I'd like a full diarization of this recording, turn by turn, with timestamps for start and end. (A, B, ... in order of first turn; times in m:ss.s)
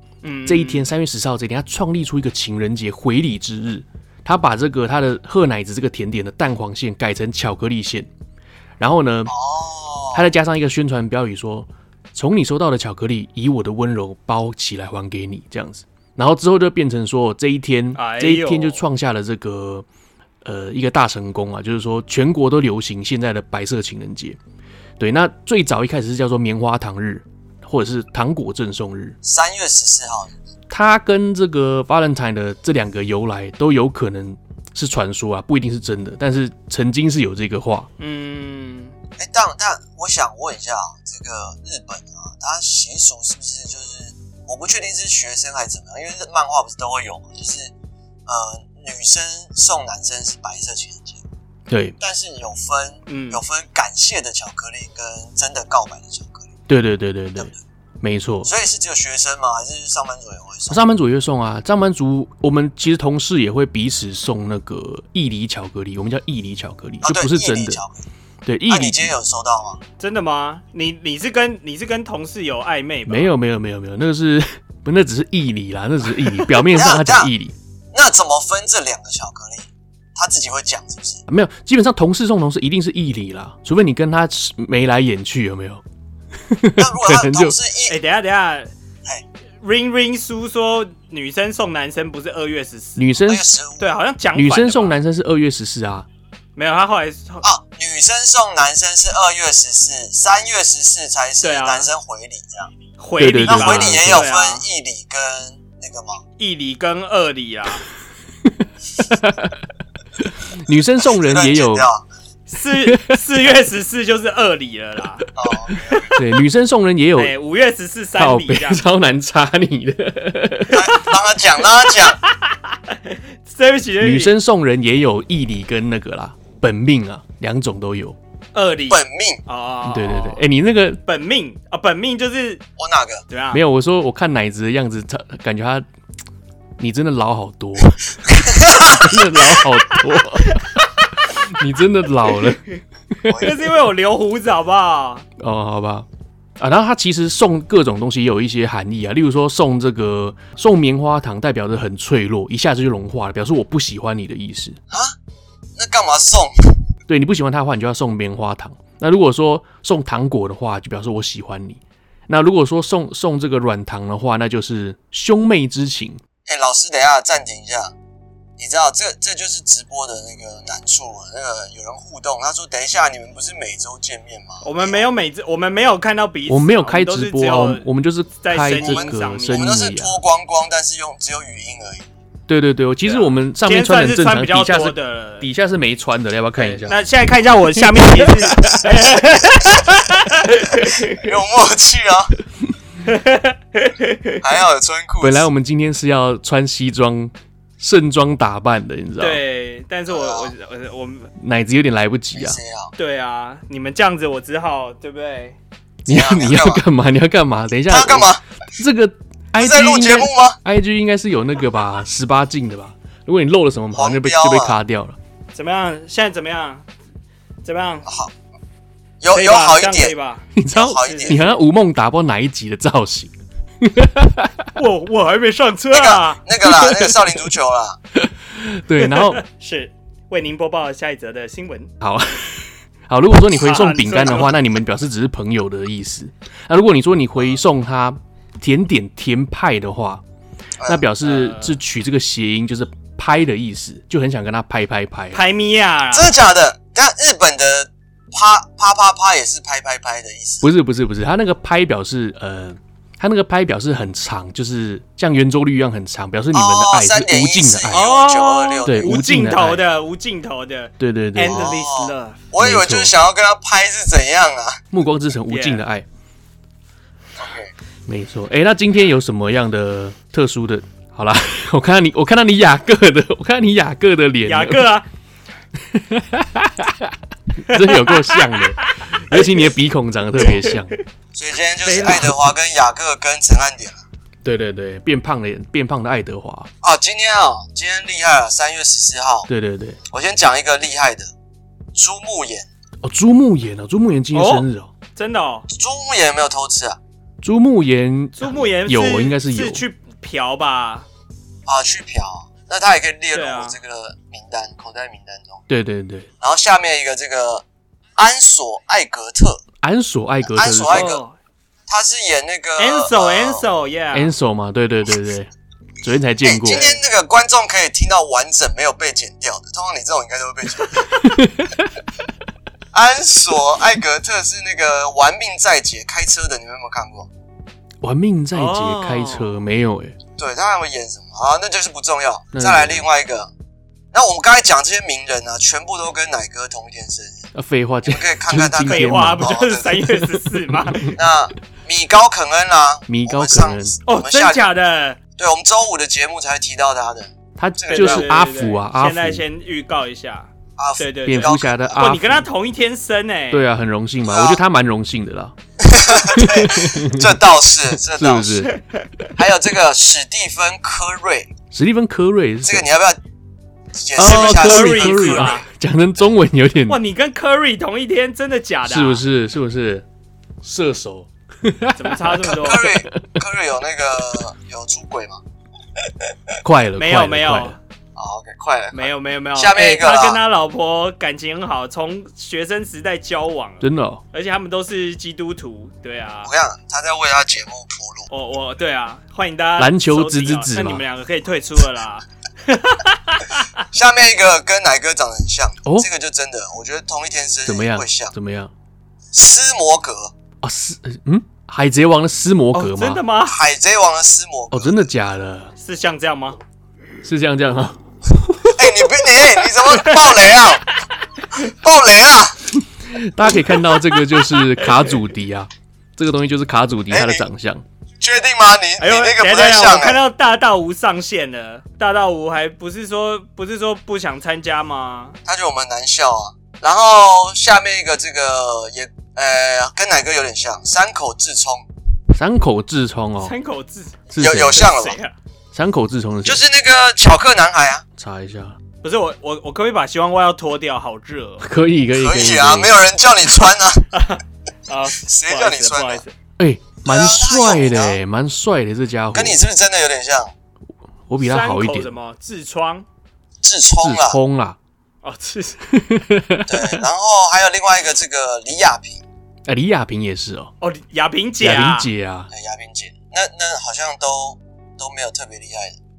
0:00.2-0:00.9 A
0:00.5-0:08.1 B
0:08.8-0:09.3 B
0:09.3-0:10.2 C
0:10.1-0:19.8 B
0:18.0-0:18.8 A
0:20.4-0:24.4 B
0:25.0-0:29.2 B
0:29.2-0:30.3 C
0:30.7-0:37.9 B
0:38.0-0:38.9 A
0:39.2-0:47.7 C
0:48.3-0:51.2 C
0:51.7-0:52.0 B
0:52.0-0:56.5 C
0:53.1-0:53.4 A
0:56.7-0:58.5 B
0:58.4-1:00.8 C
1:00.7-1:07.8 B
1:07.0-1:08.0 C
1:08.4-1:09.1 B
1:08.7-1:09.8 C
1:10.0-1:13.3 A
1:13.1-1:17.5 B
1:16.7-1:17.3 C
1:17.9-1:21.2 C
1:21.3-1:25.8 B
1:26.5-1:27.5 B
1:26.8-1:28.0 C
1:27.9-1:28.7 A
1:29.6-1:33.0 A
1:33.0-1:33.5 B
1:33.3-1:33.9 C
1:33.8-1:35.0 A
1:34.3-1:36.1 B
1:36.6-1:37.4 A
1:37.4-1:42.7 C
1:41.4-1:41.9 A
1:43.0-1:44.6 A
1:43.2-1:44.2 B
1:43.4-1:46.2 C
1:46.4-1:47.8 A
1:48.6-1:49.6 B
1:50.4-1:51.9 B
1:51.0-1:52.0 C
1:52.5-1:55.3 A
1:52.8-1:53.2 B
1:55.4-1:56.1 C
1:55.9-1:56.2 A
1:56.0-1:57.3 B
1:57.2-1:58.8 A
1:58.2-2:00.8 B
2:00.7-2:02.2 C
2:02.0-2:04.3 A
2:04.0-2:08.2 B
2:08.5-2:10.4 A
2:08.9-2:09.4 C
2:09.9-2:11.0 B
2:11.0-2:12.6 A
2:12.8-2:13.2 C
2:13.3-2:13.6 A
2:13.5-2:15.8 B
2:16.8-2:20.6 B
2:18.3-2:19.2 C
2:21.2-2:23.5 B
2:23.3-2:23.5 C
2:23.4-2:25.2 A
2:25.4-2:26.0 B
2:26.6-2:34.8 B
2:34.9-2:35.2 C
2:35.8-2:36.8 C
2:37.1-2:46.2 B
2:46.5-2:47.9 C
2:48.6-2:55.0 C
2:54.6-2:57.8 A
2:56.5-3:00.2 B
2:58.4-2:59.7 A
2:58.8-3:02.1 C
3:02.5-3:07.0 B
3:03.0-3:05.4 A
3:06.6-3:11.3 A
3:07.8-3:08.8 B
3:10.8-3:12.3 C
3:13.0-3:14.4 A
3:14.4-3:15.5 C
3:15.2-3:19.4 B
3:19.2-3:21.3 A
3:20.1-3:20.5 C
3:21.4-3:22.6 B
3:22.3-3:22.9 C
3:23.0-3:25.6 A
3:26.0-3:35.2 B
3:26.1-3:26.8 C
3:27.9-3:28.4 C
3:29.6-3:30.6 C
3:33.9-3:34.8 C
3:35.5-3:36.8 A
3:37.6-3:38.0 A
3:38.0-3:38.3 C
3:39.2-3:40.1 C
3:39.3-3:41.5 A
3:40.5-3:43.3 B
3:40.7-3:41.4 C
3:43.8-3:44.7 B
3:44.7-3:46.4 A
3:45.9-3:48.0 C
3:46.6-3:47.4 B
3:48.1-3:49.4 B
3:49.0-3:51.9 A
3:52.0-4:00.2 B
3:53.5-3:54.5 A
4:00.9-4:05.4 B
4:01.2-4:01.8 A
4:05.3-4:06.3 A
4:06.1-4:10.6 C
4:10.6-4:18.0 B
4:16.5-4:19.2 C
4:17.9-4:22.4 A
4:18.8-4:19.8 B
4:21.0-4:21.8 B
4:21.5-4:24.8 C
4:22.6-4:23.1 B
4:24.9-4:26.0 B
4:25.5-4:25.8 A
4:27.4-4:27.7 C
4:28.1-4:34.9 B
4:34.4-4:35.0 A
4:35.8-4:41.0 B
4:37.7-4:38.4 A
4:40.4-4:40.8 A
4:41.3-4:44.0 C
4:41.8-4:42.4 A
4:44.4-4:46.7 B
4:46.8-4:49.5 C
4:49.5-4:50.0 B
4:50.1-4:51.3 C
4:51.9-4:52.7 C
4:53.0-4:54.9 B
4:54.3-4:55.7 A
4:55.7-4:57.0 C
4:57.4-4:59.8 B
4:58.4-5:01.1 A
5:01.6-5:05.6 C
5:03.3-5:03.8 A
5:05.7-5:06.3 B
5:06.4-5:07.6 C
5:08.2-5:09.6 C
5:09.8-5:11.0 B
5:10.5-5:11.2 C
5:10.9-5:11.3 A
5:11.9-5:13.6 C
5:12.8-5:14.3 A
5:14.1-5:15.5 B
5:16.0-5:16.8 B
5:16.4-5:21.0 C
5:16.7-5:17.0 A
5:21.2-5:21.9 B
5:22.9-5:27.3 C
5:28.0-5:30.2 B
5:28.5-5:29.5 A
5:30.4-5:33.5 C
5:32.5-5:33.0 B
5:34.1-5:37.5 C
5:37.5-5:39.6 B
5:38.0-5:40.0 C
5:38.8-5:41.1 A
5:41.1-5:44.6 C
5:43.1-5:44.0 B
5:44.1-5:45.2 A
5:45.4-5:48.3 C
5:47.6-5:49.4 B
5:47.9-5:53.6 A
5:50.8-5:52.1 C
5:51.2-5:52.4 B
5:53.5-5:55.5 B
5:54.2-5:54.6 C
5:55.8-5:58.7 C
5:56.1-5:57.3 B
5:58.1-5:58.8 B
5:59.4-6:01.5 C
6:01.7-6:02.9 B
6:02.6-6:03.2 C
6:03.9-6:05.6 C
6:04.2-6:07.0 B
6:04.2-6:05.6 A
6:06.9-6:09.2 A
6:08.9-6:10.0 B
6:10.6-6:13.4 B
6:12.0-6:12.9 A
6:12.5-6:15.4 C
6:16.6-6:17.8 B
6:17.0-6:17.8 A
6:18.2-6:20.4 C
6:18.9-6:26.5 A
6:23.8-6:24.2 B
6:26.4-6:28.2 C
6:28.3-6:33.7 A
6:29.8-6:31.0 B
6:33.9-6:38.3 C
6:37.6-6:38.7 B
6:39.3-6:40.3 C
6:40.6-6:43.2 B
6:42.7-6:43.6 A
6:43.4-6:44.9 C
6:44.7-6:45.7 B
6:45.8-6:46.6 A
6:47.2-6:48.8 B
6:48.7-6:50.8 C
6:50.0-6:50.4 A
6:51.6-6:52.6 C
6:52.9-6:57.8 B
6:57.1-6:57.4 C
6:58.2-7:00.2 C
6:59.0-7:05.4 A
7:05.4-7:11.8 C
7:12.3-7:13.5 B
7:13.4-7:15.3 A
7:14.3-7:14.9 B
7:14.4-7:15.2 C
7:15.7-7:16.6 B
7:16.4-7:18.0 C
7:18.2-7:18.8 B
7:19.0-7:21.7 A
7:21.6-7:22.9 B
7:22.2-7:24.1 C
7:24.1-7:26.3 A
7:25.2-7:26.2 C
7:26.6-7:29.6 B
7:27.0-7:28.2 C
7:29.3-7:30.5 C
7:31.3-7:32.1 B
7:31.4-7:33.0 A
7:33.6-7:34.4 C
7:34.0-7:34.8 B
7:35.2-7:35.8 A
7:35.9-7:37.0 B
7:36.7-7:39.2 C
7:39.6-7:40.7 B
7:40.8-7:42.1 A
7:41.6-7:42.5 B
7:42.5-7:46.0 C